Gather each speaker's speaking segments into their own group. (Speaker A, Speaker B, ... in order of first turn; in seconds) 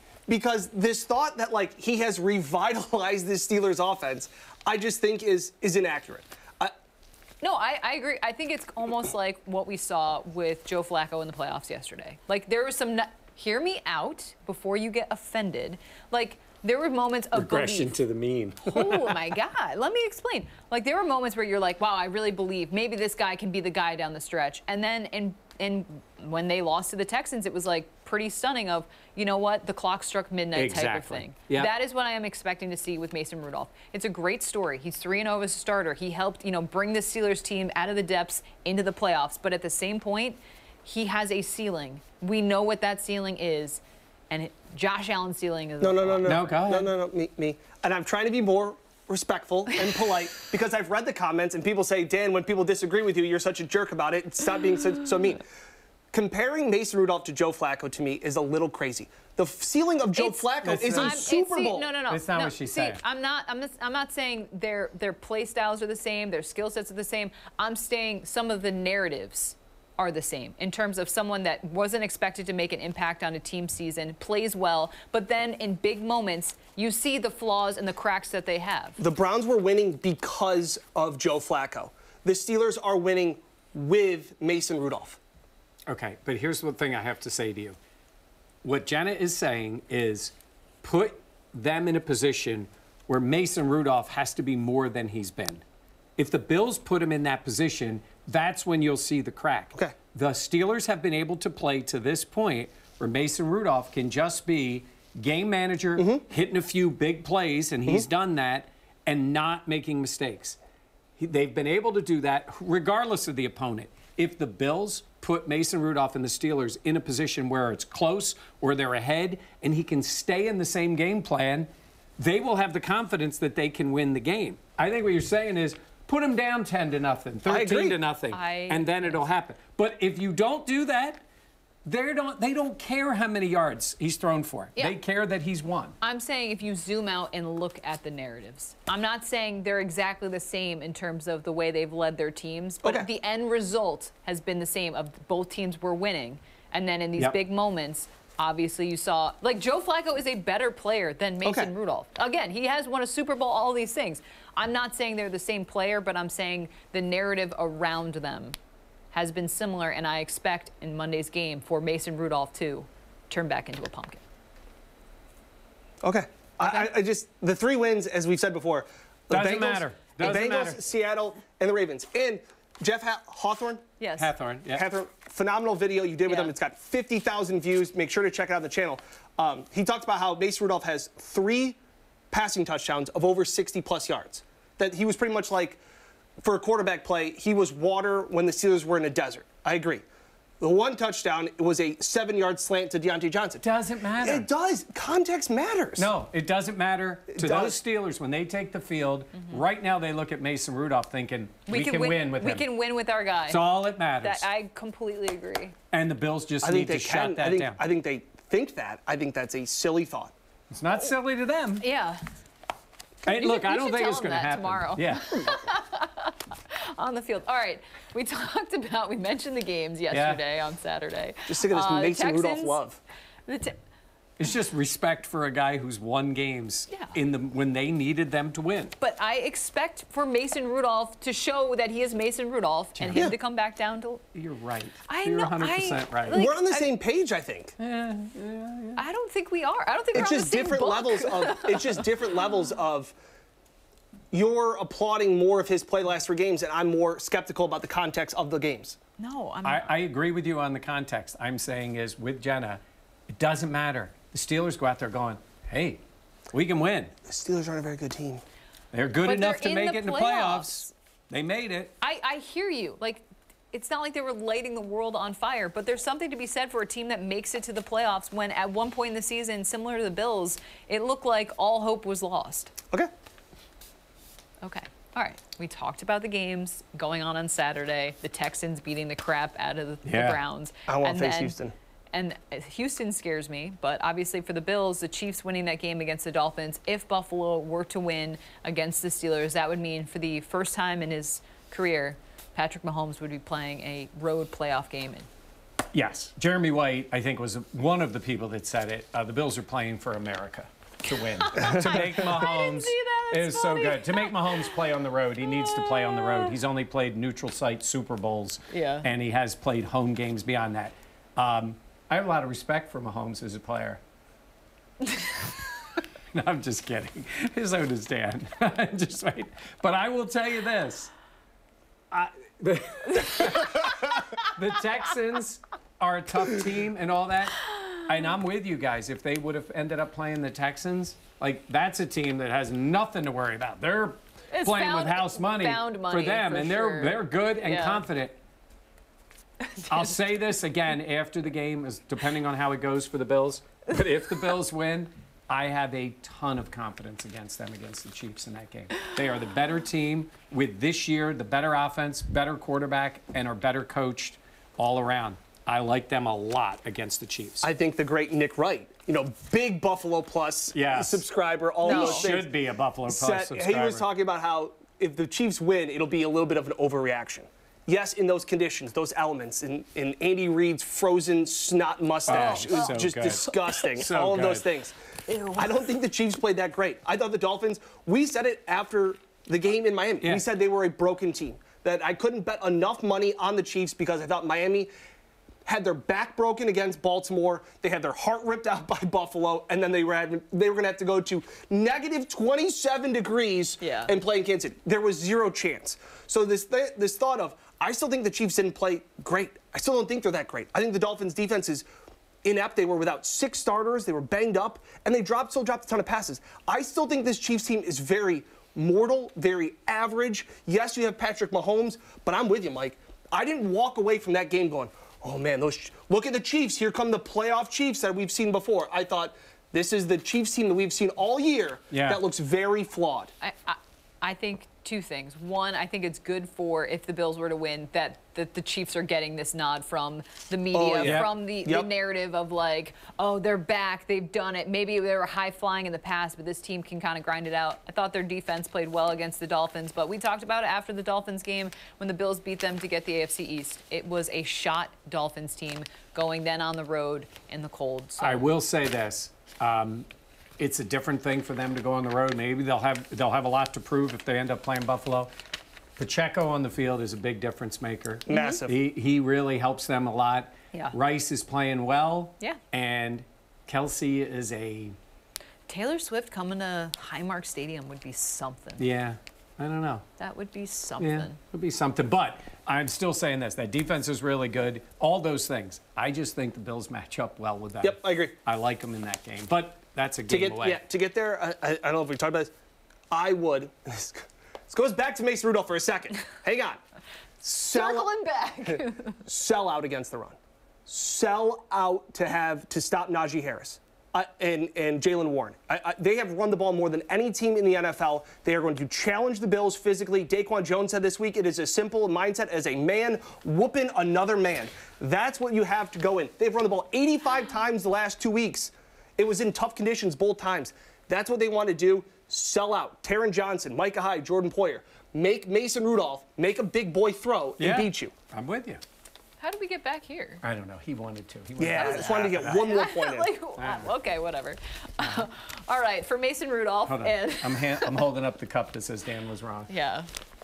Speaker A: 0.3-6.7, 45.8-55.4, 56.1-61.9, 79.0-85.2, 106.0-106.2, 127.5-128.0, 151.4-151.7, 166.0-173.8, 174.7-181.8, 182.3-185.8, 186.4-190.0, 190.6-193.6, 194.2-196.1, 197.3-197.8, 206.6-210.3, 221.5-223.0, 236.3-237.7, 240.1-243.1, 244.3-249.0, 257.2-258.4, 280.9-281.7, 357.6-362.5, 363.1-374.9, 375.5-384.9, 385.7-401.9, 402.4-423.3, 430.7-431.9, 458.3-458.8, 477.8-478.3, 480.3-482.5, 483.1-486.8, 487.4-488.1, 488.6-518.1, 521.6-523.3
Speaker B: 7.4-17.9, 18.6-46.6, 60.1-79.0, 128.3-129.2, 136.0-158.6, 159.1-164.2, 166.6-166.9, 174.0-174.3, 176.2-176.5, 201.7-203.6, 204.2-205.7, 211.8-212.2, 213.2-222.8, 223.4-223.8, 229.0-234.2, 235.1-236.9, 238.9-242.1, 249.2-249.9, 259.2-260.9, 262.0-272.7, 274.6-281.6, 282.1-295.3, 301.4-304.8, 305.5-306.6, 308.7-309.1, 323.4-323.8, 334.5-338.0, 361.8-362.4, 372.3-373.4, 375.3-375.6, 393.8-394.1, 423.4-448.5, 458.3-458.6, 465.7-468.8, 470.2-471.4, 487.7-489.2, 519.4-520.4, 521.7-528.1, 529.7-530.1
Speaker C: 17.3-19.3, 30.5-31.7, 46.2-46.9, 60.6-61.2, 62.1-63.0, 85.9-87.8, 88.6-95.6, 96.2-110.6, 111.2-131.2, 131.8-135.9, 169.3-170.8, 174.2-174.8, 193.6-194.5, 196.0-202.7, 203.5-204.4, 205.9-207.8, 210.7-211.8, 213.2-215.5, 220.1-220.4, 224.4-228.9, 233.0-233.3, 234.3-236.4, 237.8-239.0, 249.6-257.1, 258.9-261.9, 280.0-280.4, 295.9-314.0, 316.3-321.1, 322.1-338.4, 339.9-357.7, 360.7-361.2, 361.8-364.1, 372.3-373.4, 373.9-374.7, 421.9-422.2, 431.0-431.3, 448.2-450.1, 450.6-455.3, 456.0-464.9, 468.8-470.0, 471.0-480.8, 517.6-518.8, 520.4-522.6, 523.6-523.9, 526.9-529.7